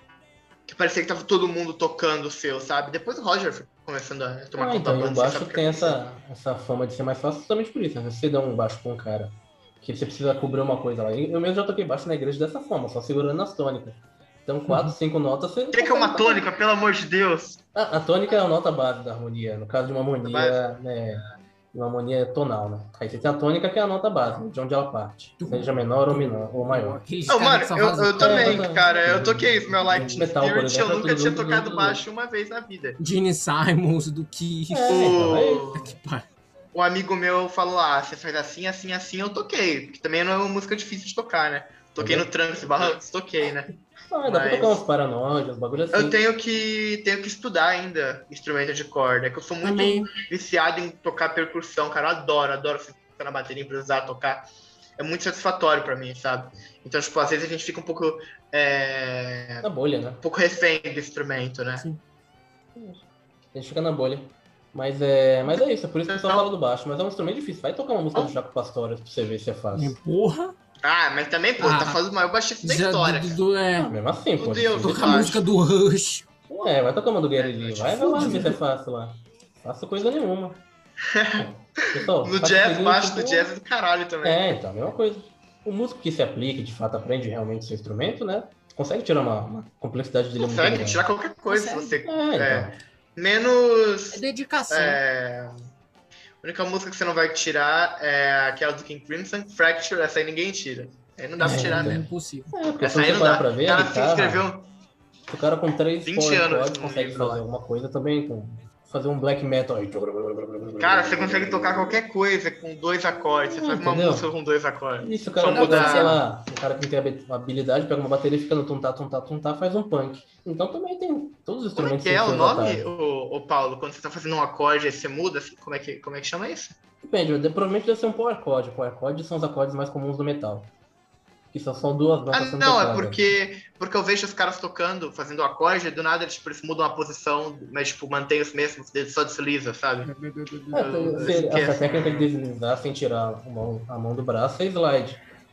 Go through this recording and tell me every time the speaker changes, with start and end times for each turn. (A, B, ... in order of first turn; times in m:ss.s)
0:00.7-0:06.0 A
0:04.5-0:16.2 B
0:14.7-0:14.9 C
0:15.7-0:17.6 A
0:17.7-0:27.0 B
0:20.2-0:20.6 A
0:25.4-0:28.7 C
0:27.3-0:33.0 A
0:28.2-0:32.0 B
0:29.9-0:30.3 C
0:33.0-0:35.0 C
0:34.7-0:35.8 B
0:34.9-0:35.9 A
0:35.7-0:36.2 C
0:36.7-0:43.7 A
0:42.0-0:42.3 B
0:44.1-0:46.2 B
0:44.2-0:44.8 A
0:45.9-0:54.4 A
0:49.6-0:50.1 C
0:55.0-0:59.7 A
0:59.6-1:00.2 B
1:00.2-1:01.8 A
1:02.7-1:03.0 B
1:03.5-1:10.0 B
1:06.1-1:06.5 A
1:09.7-1:10.5 C
1:10.8-1:13.4 A
1:11.6-1:12.0 C
1:12.6-1:13.9 C
1:13.8-1:15.3 B
1:14.4-1:15.4 A
1:14.8-1:16.4 C
1:16.5-1:20.6 B
1:17.4-1:18.5 A
1:18.1-1:18.6 C
1:21.0-1:24.6 A
1:21.4-1:23.5 B
1:24.2-1:31.0 B
1:30.4-1:35.6 A
1:31.5-1:32.0 C
1:32.0-1:32.8 B
1:34.1-1:35.0 C
1:36.4-1:42.0 A
1:41.4-1:44.5 B
1:41.4-1:42.5 C
1:42.8-1:44.7 A
1:45.3-1:51.9 B
1:46.0-1:47.4 A
1:50.8-1:56.2 A
1:53.5-1:54.3 B
1:55.0-2:02.8 B
1:55.5-1:56.2 C
2:01.8-2:06.8 A
2:07.0-2:10.7 B
2:11.5-2:13.2 B
2:12.3-2:20.1 A
2:20.0-2:21.6 C
2:20.7-2:22.3 A
2:20.7-2:25.2 B